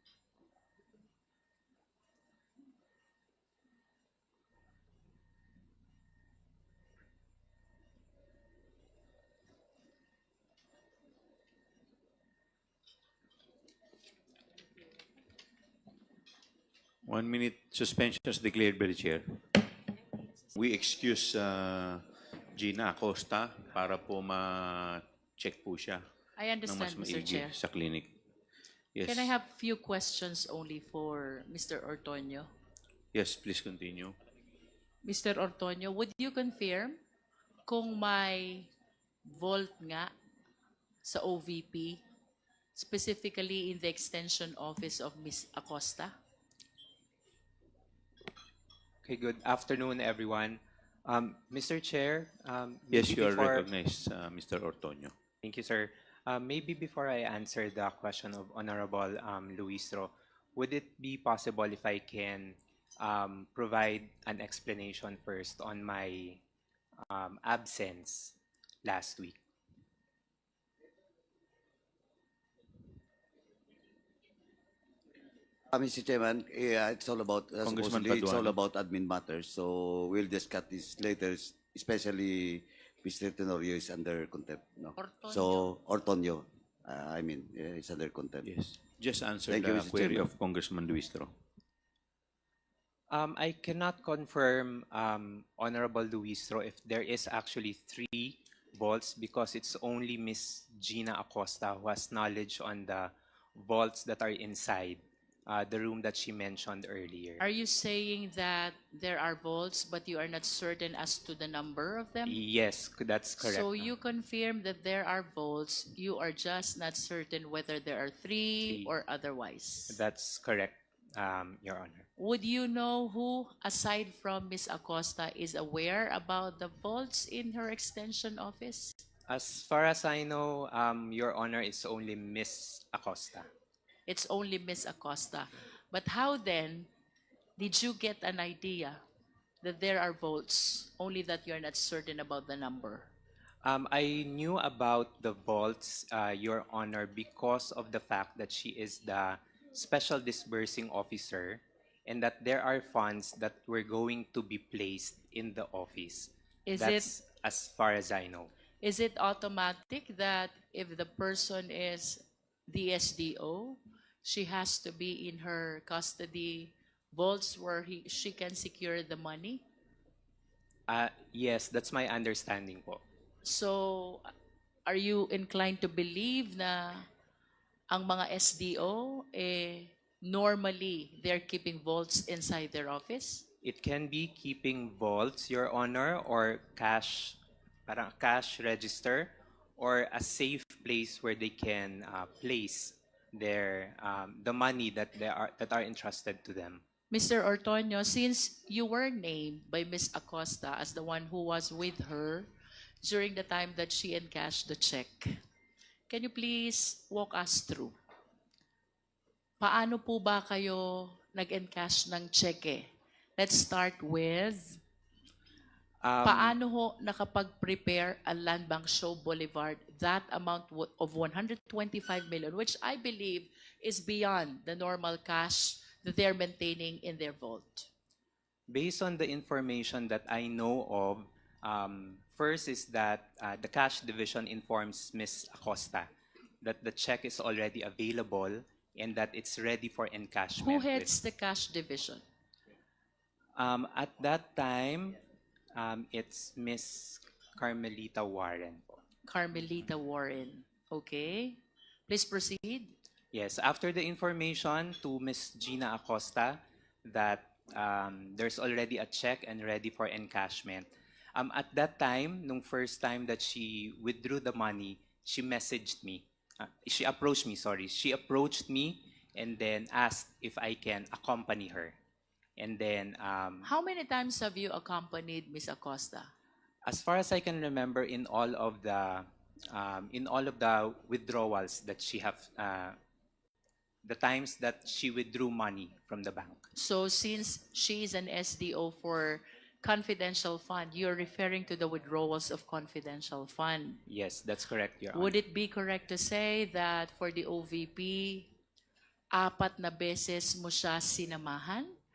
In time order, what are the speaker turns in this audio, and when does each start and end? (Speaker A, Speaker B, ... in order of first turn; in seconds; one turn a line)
Speaker A: 17.0-19.4
Speaker A: 20.5-26.0
Speaker B: 26.4-27.6
Speaker A: 26.6-28.1
Speaker A: 28.9-29.3
Speaker B: 29.0-32.5
Speaker A: 33.1-34.1
Speaker B: 35.0-37.0
Speaker B: 37.7-38.7
Speaker B: 39.2-40.1
Speaker B: 41.0-42.0
Speaker B: 42.7-46.1
Speaker C: 49.0-53.6
Speaker A: 52.9-55.1
Speaker C: 55.4-66.4
Speaker C: 67.0-69.4
Speaker D: 75.7-88.5
Speaker A: 77.6-78.6
Speaker B: 85.0-85.6
Speaker A: 88.4-91.3
Speaker D: 89.5-90.3
Speaker C: 93.1-107.5
Speaker B: 107.4-112.4
Speaker C: 112.2-113.9
Speaker B: 113.4-120.0
Speaker C: 118.7-118.9
Speaker C: 119.9-122.1
Speaker B: 122.2-129.0
Speaker C: 129.3-133.5
Speaker B: 134.1-136.9
Speaker B: 137.6-139.0
Speaker B: 139.6-143.1
Speaker C: 143.6-158.5
Speaker B: 156.7-157.1
Speaker B: 158.8-169.6
Speaker C: 170.9-173.0
Speaker B: 173.4-174.3
Speaker B: 174.8-177.1
Speaker B: 177.9-183.4
Speaker C: 183.6-196.8
Speaker B: 197.1-202.5
Speaker B: 203.0-205.4
Speaker B: 206.1-207.9
Speaker B: 209.6-214.8
Speaker C: 216.0-216.6
Speaker B: 216.2-227.9
Speaker C: 228.7-241.1
Speaker B: 240.6-242.2
Speaker C: 243.6-245.2
Speaker C: 245.7-249.0
Speaker B: 249.3-252.9
Speaker C: 253.3-271.9
Speaker C: 272.6-273.7
Speaker B: 273.6-276.3
Speaker C: 276.8-283.0
Speaker C: 284.0-286.6
Speaker B: 286.7-294.0
Speaker C: 294.1-295.3
Speaker B: 295.1-298.5
Speaker B: 299.3-301.9